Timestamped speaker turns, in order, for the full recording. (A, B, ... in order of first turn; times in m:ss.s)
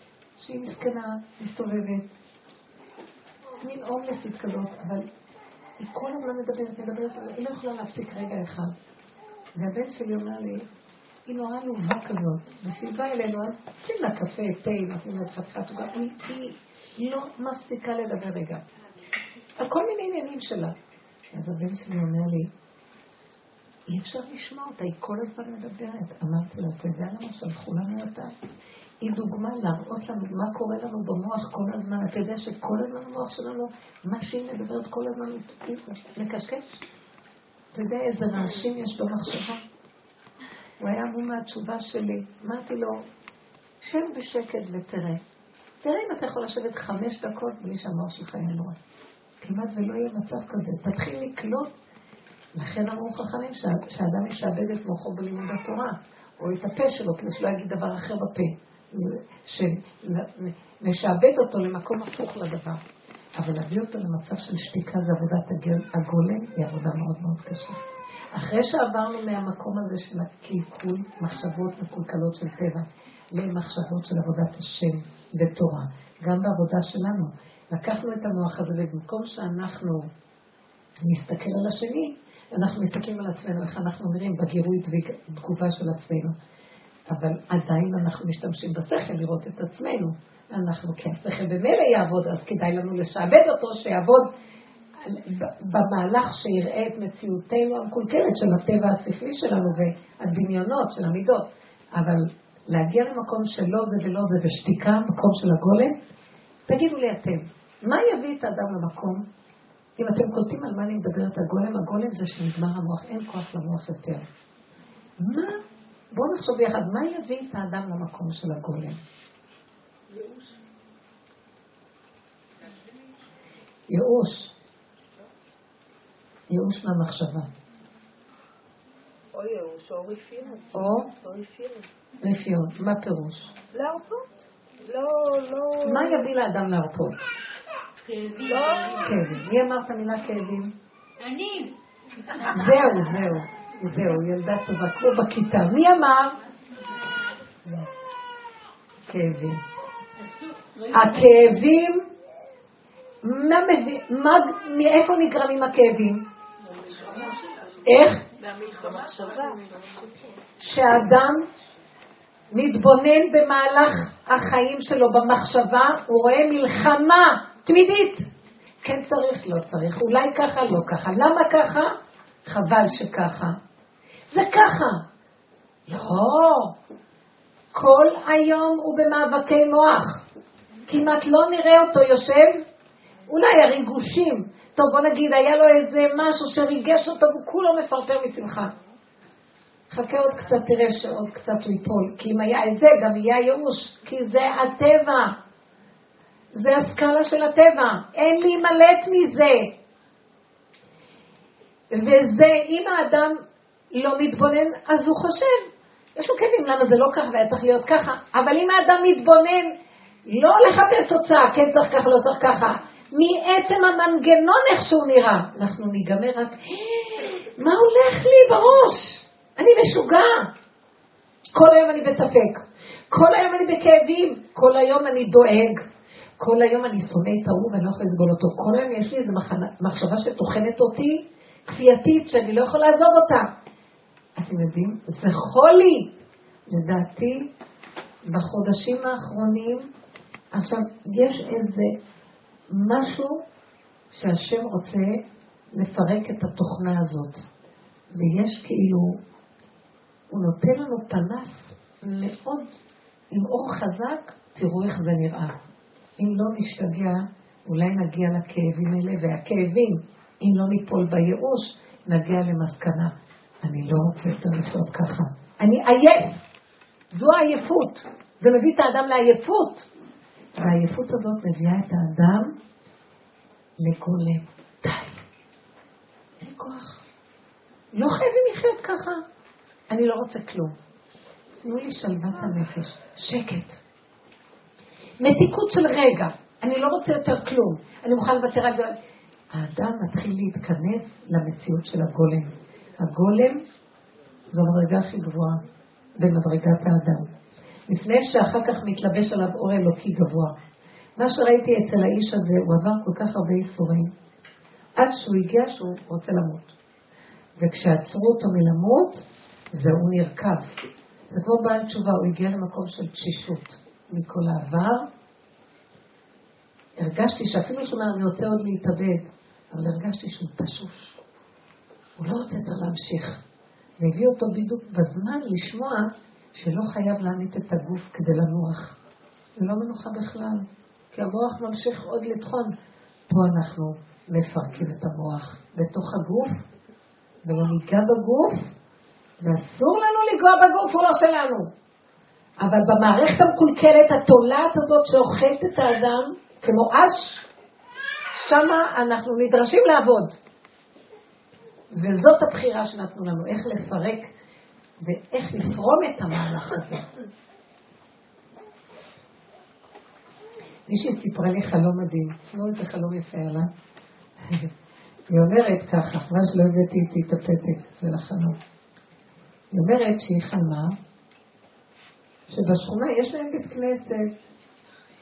0:00.4-0:02.1 A
0:03.6-0:05.1 A
0:05.8-0:08.8 A
0:09.6-0:10.7 A
0:11.3-0:18.6 A
0:19.6-0:20.8 A
0:21.3-0:22.5 A
0:23.9-0:28.3 A
0:29.0-0:36.8 A
0:37.7-0:39.6 A
0:40.8-0:43.0 A
0:43.8-0:45.2 A
0:45.8-0:48.8 A
0:49.4-0:51.7 A
0:52.6-1:02.8 A
1:03.4-1:07.8 A
1:08.3-1:20.1 A
1:21.0-1:26.4 A
1:27.1-1:34.3 A
1:35.0-1:46.0 A
1:46.7-1:49.2 A
1:50.0-1:54.2 A
1:55.2-1:55.6 A
1:56.1-1:59.0 A
2:03.9-2:04.5 A
2:06.5-2:07.5 A
2:09.3-2:11.9 B
2:10.7-2:11.1 A
2:12.2-2:13.5 A
2:13.7-2:16.3 B
2:15.8-2:17.3 A
2:18.0-2:19.2 C
2:18.4-2:19.1 B
2:19.0-2:20.8 A
2:21.2-2:21.8 C
2:22.4-2:22.8 C
2:22.5-2:26.4 A
2:29.1-2:29.6 A
2:30.2-2:31.3 C
2:30.9-2:32.1 A
2:33.2-2:36.3 A
2:36.9-2:37.3 B
2:37.8-2:38.2 A
2:38.7-2:39.7 B
2:40.6-2:41.4 A
2:42.5-2:48.3 A
2:48.8-2:53.6 A
2:54.3-2:55.0 A
2:55.9-2:56.8 A
2:57.7-3:00.2 A
3:00.9-3:02.6 A
3:03.3-3:08.7 A
3:09.9-3:15.4 A
3:16.6-3:19.8 A
3:21.9-3:23.4 A
3:23.9-3:40.5 A
3:41.5-3:45.9 A
3:46.4-3:53.5 A
3:54.4-3:56.2 A
3:56.7-3:57.5 A
3:58.3-3:59.9 A
4:00.5-4:02.0 A
4:02.7-4:03.4 A
4:04.1-4:07.4 A
4:08.1-4:09.2 A
4:10.3-4:12.7 A
4:13.3-4:15.6 A
4:16.2-4:26.4 A
4:27.1-4:29.9 A
4:30.6-4:32.6 A
4:33.8-4:35.2 A
4:36.4-4:37.0 A
4:38.0-4:39.2 A
4:39.9-4:40.8 A
4:41.6-4:43.8 A
4:45.2-4:49.0 A
4:49.5-4:53.6 A
4:54.5-4:55.6 A
4:56.2-4:57.3 A
4:57.9-5:00.6 A
5:01.2-5:04.1 A
5:05.0-5:06.7 A
5:07.6-5:10.8 A
5:11.3-5:15.1 A
5:17.0-5:21.2 A
5:22.2-5:23.4 A
5:24.0-5:29.0 A
5:29.6-5:32.7 A
5:33.3-5:36.6 A
5:37.4-5:38.7 A
5:39.4-5:41.7 A
5:42.6-5:47.4 A
5:48.4-5:50.4 A
5:51.9-5:54.3 A
5:55.0-5:57.1 A
6:00.9-6:03.7 A
6:04.4-6:04.7 A
6:05.3-6:08.6 A
6:09.7-6:11.0 A
6:12.5-6:14.3 A